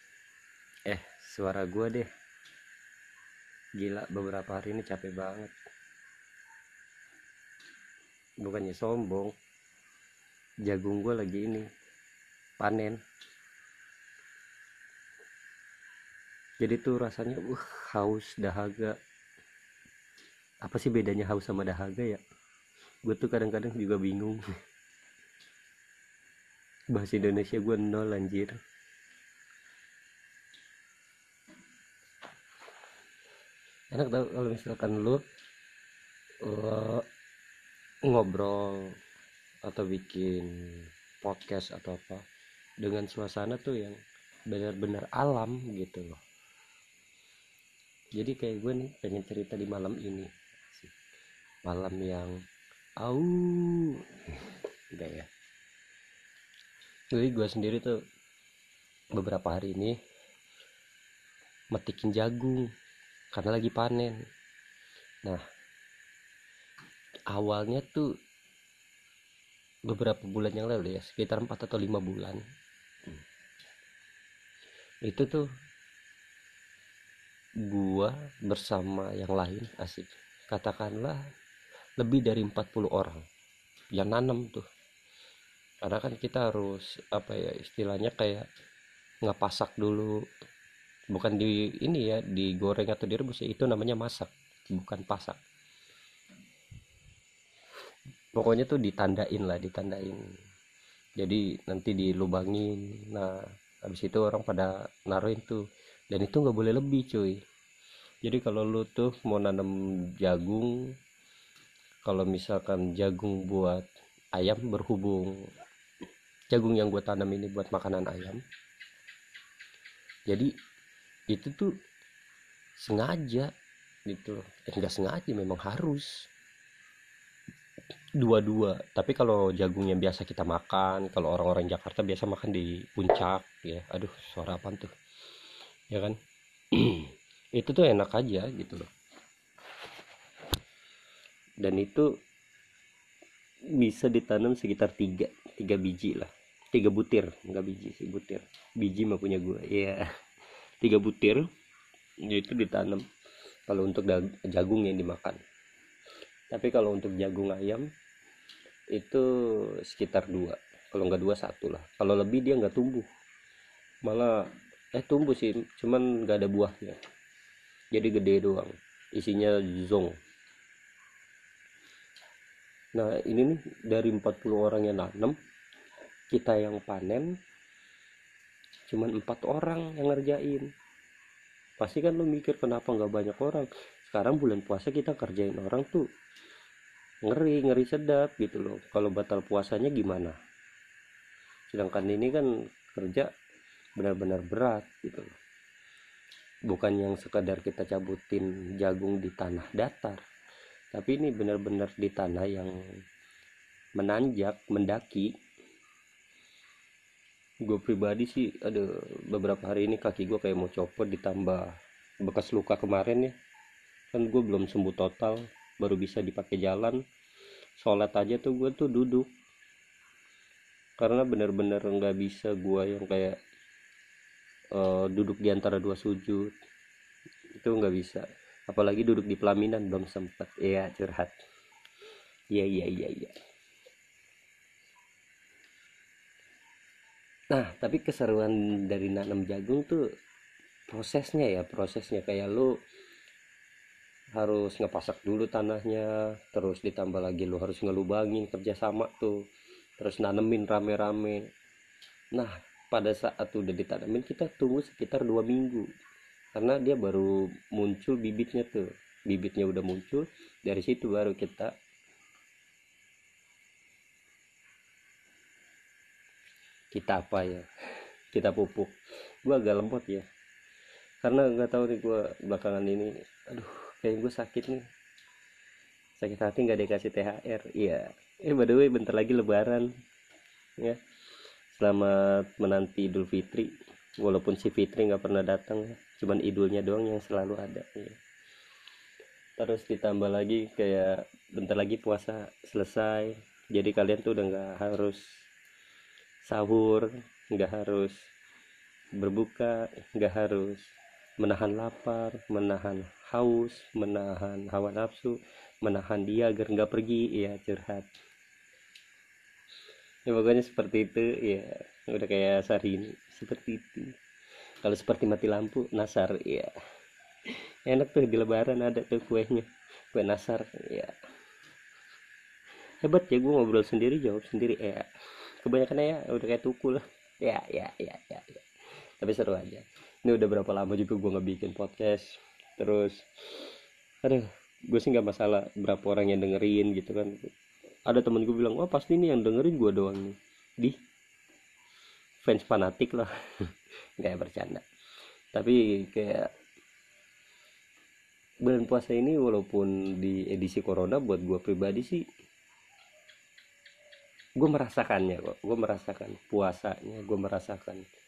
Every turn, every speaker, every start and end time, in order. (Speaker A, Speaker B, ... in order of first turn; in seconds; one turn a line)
Speaker A: 0.9-2.1
Speaker A: 3.8-5.5
Speaker A: 8.4-9.3
Speaker A: 10.6-11.7
Speaker A: 12.6-13.0
Speaker A: 16.6-18.9
Speaker A: 20.6-22.2
Speaker A: 23.0-24.4
Speaker A: 26.9-28.5
Speaker A: 33.9-35.2
Speaker A: 36.4-37.0
Speaker A: 38.0-38.9
Speaker A: 39.6-42.2
Speaker A: 42.8-44.0
Speaker A: 44.5-46.2
Speaker A: 48.1-50.9
Speaker A: 51.6-52.3
Speaker A: 53.0-55.3
Speaker A: 57.1-58.0
Speaker A: 59.2-59.9
Speaker A: 61.7-62.6
Speaker A: 63.3-64.2
Speaker A: 67.3-68.1
Speaker A: 69.9-72.4
Speaker A: 75.0-75.4
Speaker A: 77.7-81.2
Speaker A: 82.0-83.2
Speaker A: 83.9-84.6
Speaker A: 85.8-88.5
Speaker A: 89.2-90.1
Speaker A: 91.1-95.4
Speaker A: 98.3-100.2
Speaker A: 101.2-107.4
Speaker A: 108.2-110.7
Speaker A: 112.0-115.3
Speaker A: 116.5-118.4
Speaker A: 121.3-121.7
Speaker A: 122.8-123.5
Speaker A: 124.1-126.3
Speaker A: 128.2-134.9
Speaker A: 135.9-136.2
Speaker A: 136.7-138.9
Speaker A: 141.6-142.1
Speaker A: 143.8-150.0
Speaker A: 150.8-151.4
Speaker A: 152.3-153.0
Speaker A: 153.7-155.4
Speaker A: 156.5-157.9
Speaker A: 158.9-159.2
Speaker A: 159.8-163.1
Speaker A: 164.0-164.4
Speaker A: 164.9-167.0
Speaker A: 167.9-170.1
Speaker A: 172.9-175.3
Speaker A: 176.3-177.3
Speaker A: 178.9-180.7
Speaker A: 181.8-186.1
Speaker A: 187.2-190.3
Speaker A: 191.7-193.3
Speaker A: 194.0-195.3
Speaker A: 196.7-200.2
Speaker A: 200.9-202.7
Speaker A: 204.0-205.3
Speaker A: 207.7-211.7
Speaker A: 212.2-213.3
Speaker A: 214.1-217.0
Speaker A: 217.8-219.3
Speaker A: 221.0-223.3
Speaker A: 224.7-226.5
Speaker A: 227.6-231.3
Speaker A: 232.5-233.3
Speaker A: 237.5-240.0
Speaker A: 240.9-242.7
Speaker A: 244.3-249.3
Speaker A: 250.0-251.4
Speaker A: 252.3-255.8
Speaker A: 256.5-261.7
Speaker A: 266.9-267.6
Speaker A: 268.3-270.2
Speaker A: 271.2-274.8
Speaker A: 276.2-279.9
Speaker A: 281.7-288.2
Speaker A: 289.6-295.2
Speaker A: 296.4-298.1
Speaker A: 299.2-308.1
Speaker A: 310.3-314.1
Speaker A: 314.8-316.7
Speaker A: 317.9-321.1
Speaker A: 323.0-325.1
Speaker A: 325.6-328.6
Speaker A: 329.2-333.7
Speaker A: 334.2-337.5
Speaker A: 338.1-340.9
Speaker A: 342.4-343.3
Speaker A: 344.2-344.8
Speaker A: 345.5-346.5
Speaker A: 348.6-352.2
Speaker A: 354.6-358.0